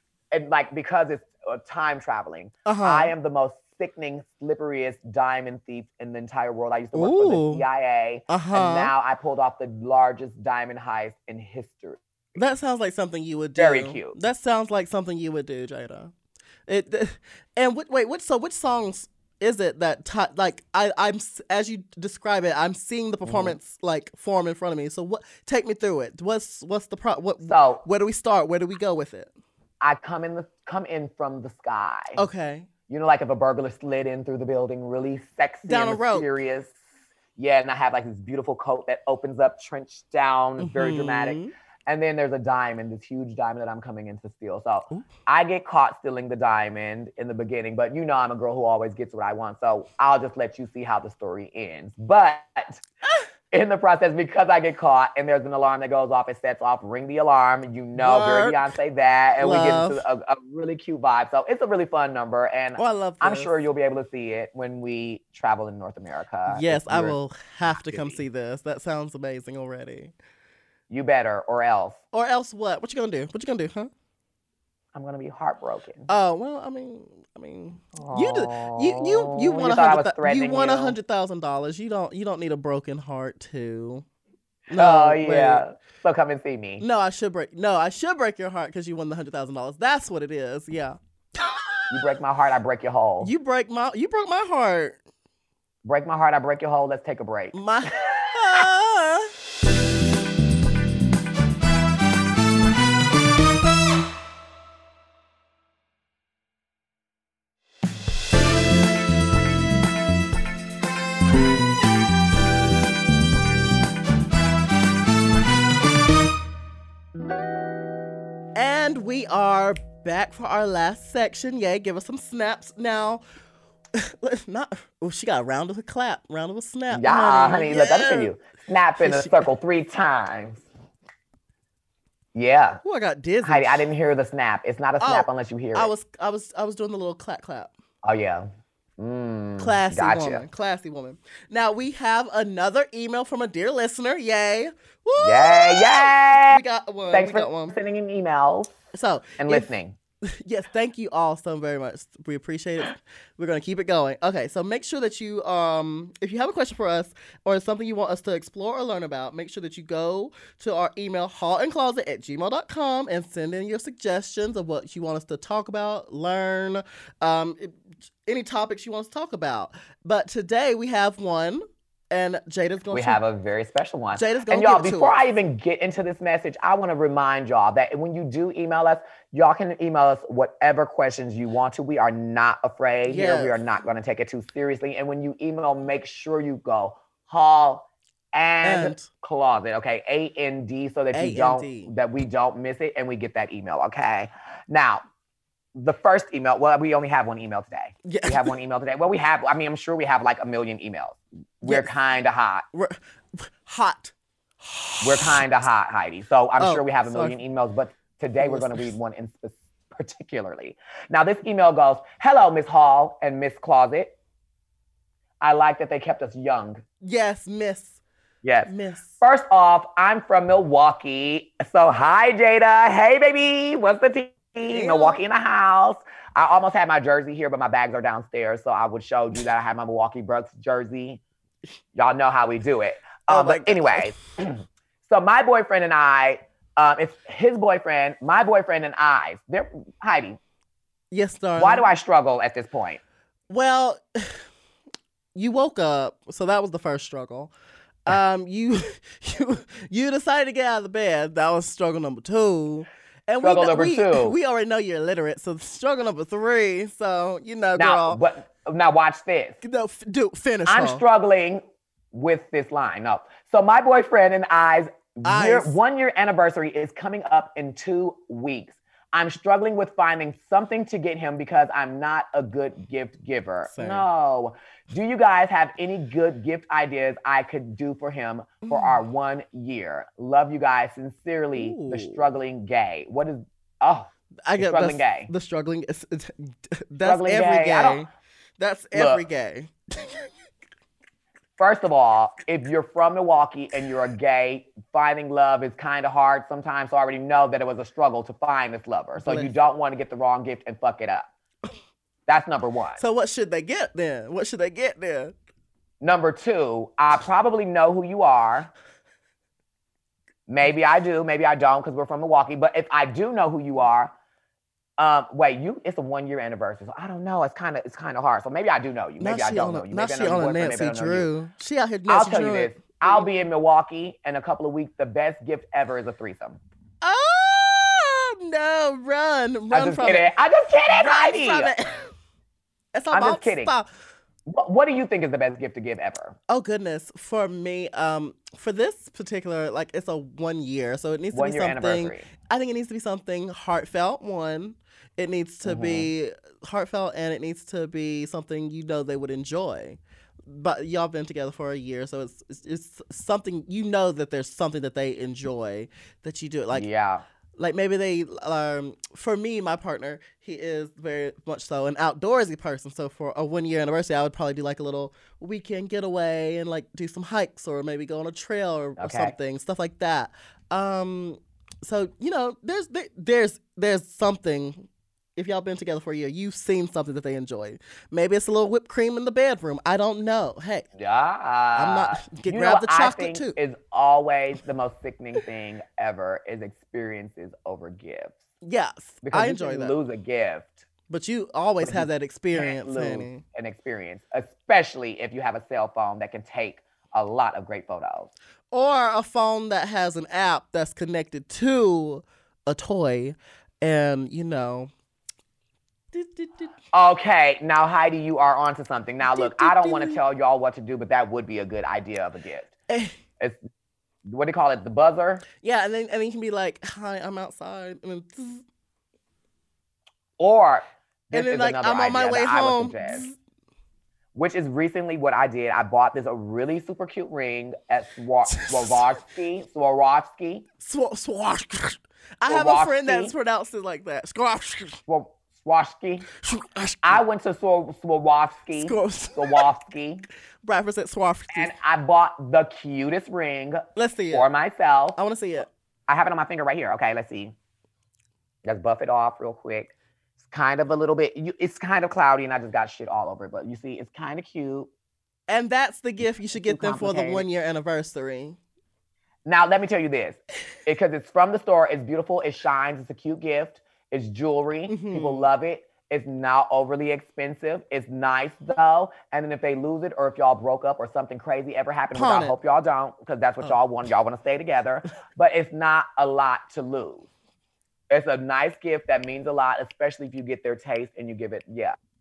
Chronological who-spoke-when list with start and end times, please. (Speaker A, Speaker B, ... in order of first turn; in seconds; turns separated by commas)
Speaker A: 0.3-12.4, Speaker B: 2.7-3.1, Speaker B: 7.0-7.7, Speaker B: 8.3-8.9, Speaker B: 12.4-16.1, Speaker A: 13.6-14.2, Speaker B: 16.7-29.3, Speaker A: 23.2-23.6, Speaker A: 27.4-27.8, Speaker A: 29.8-32.2, Speaker B: 32.2-32.7, Speaker A: 32.9-36.8, Speaker B: 35.6-36.3, Speaker A: 37.4-52.8, Speaker B: 40.6-41.5, Speaker A: 53.5-67.2, Speaker B: 58.0-58.6, Speaker B: 59.4-60.0, Speaker B: 62.8-63.6, Speaker B: 66.5-70.1, Speaker A: 67.7-68.2, Speaker A: 70.9-72.0, Speaker B: 72.1-73.9, Speaker A: 74.9-76.1, Speaker B: 76.1-84.0, Speaker A: 78.0-81.0, Speaker B: 84.7-85.6, Speaker A: 84.8-86.8, Speaker B: 86.8-91.9, Speaker A: 91.9-93.3, Speaker B: 93.2-95.0, Speaker A: 95.8-97.5, Speaker B: 97.5-99.3, Speaker B: 118.6-123.2, Speaker B: 124.0-128.3, Speaker A: 126.9-130.7, Speaker B: 129.0-129.5, Speaker A: 132.3-132.8, Speaker B: 132.8-133.9, Speaker A: 133.4-135.9, Speaker B: 135.0-137.7, Speaker A: 138.0-140.4, Speaker B: 139.6-147.8, Speaker A: 145.2-148.7, Speaker B: 148.9-149.7, Speaker A: 149.4-150.0, Speaker B: 150.3-173.2, Speaker A: 172.9-195.0, Speaker B: 174.1-175.2, Speaker B: 183.1-183.6, Speaker B: 188.6-189.1, Speaker B: 191.1-191.9, Speaker A: 195.8-202.7, Speaker B: 198.1-198.5, Speaker B: 201.6-201.9, Speaker B: 202.7-205.4, Speaker A: 205.0-214.2, Speaker B: 206.6-207.4, Speaker B: 208.4-208.9, Speaker A: 215.4-216.8, Speaker B: 217.0-218.0, Speaker A: 218.4-231.2, Speaker B: 218.7-219.2, Speaker B: 224.7-225.2, Speaker A: 231.9-240.4, Speaker B: 233.3-234.2, Speaker B: 241.1-241.9, Speaker A: 241.6-243.0, Speaker B: 243.5-244.4, Speaker B: 245.3-247.5, Speaker B: 248.1-258.2, Speaker A: 253.4-254.4, Speaker A: 257.8-259.6, Speaker B: 259.6-261.0, Speaker A: 260.7-285.3, Speaker B: 265.2-265.8, Speaker B: 273.7-274.1, Speaker B: 278.6-279.0, Speaker B: 281.6-282.2, Speaker B: 284.5-290.3, Speaker A: 287.0-288.0, Speaker A: 288.9-289.2, Speaker A: 291.6-301.3, Speaker B: 299.2-299.5, Speaker A: 302.3-303.0, Speaker B: 303.0-305.3, Speaker A: 306.0-308.7, Speaker A: 310.5-314.1, Speaker A: 315.0-321.3, Speaker B: 319.2-323.2, Speaker A: 322.1-326.6, Speaker B: 327.0-330.3, Speaker A: 329.7-331.7, Speaker B: 330.9-332.1, Speaker B: 332.9-333.9, Speaker A: 333.1-333.7, Speaker A: 334.5-336.4, Speaker B: 336.5-356.9, Speaker A: 341.3-342.3, Speaker A: 345.6-346.1, Speaker A: 356.7-357.2, Speaker B: 357.6-380.9, Speaker A: 369.0-369.4, Speaker A: 381.0-388.4, Speaker B: 381.8-383.6, Speaker B: 388.6-390.0, Speaker A: 389.2-390.8, Speaker B: 391.1-393.4, Speaker A: 391.8-398.3, Speaker B: 398.7-404.9, Speaker B: 406.1-406.7, Speaker A: 406.9-412.7, Speaker B: 409.2-410.2, Speaker B: 412.9-413.1, Speaker A: 414.2-415.4, Speaker B: 415.6-418.6, Speaker A: 420.4-423.2, Speaker B: 421.3-423.4, Speaker A: 424.4-430.7, Speaker B: 428.6-428.9, Speaker B: 430.8-435.0, Speaker A: 432.5-433.3, Speaker A: 435.1-436.3, Speaker B: 436.4-437.2, Speaker A: 437.0-440.2, Speaker B: 438.8-439.6, Speaker B: 440.6-441.7, Speaker A: 441.5-445.2, Speaker B: 444.0-444.5, Speaker B: 445.2-445.7, Speaker A: 446.1-447.6, Speaker A: 448.6-454.9, Speaker B: 455.5-458.6, Speaker A: 456.6-457.5, Speaker A: 459.5-477.3, Speaker B: 464.9-465.5, Speaker B: 472.1-472.6, Speaker A: 478.1-482.0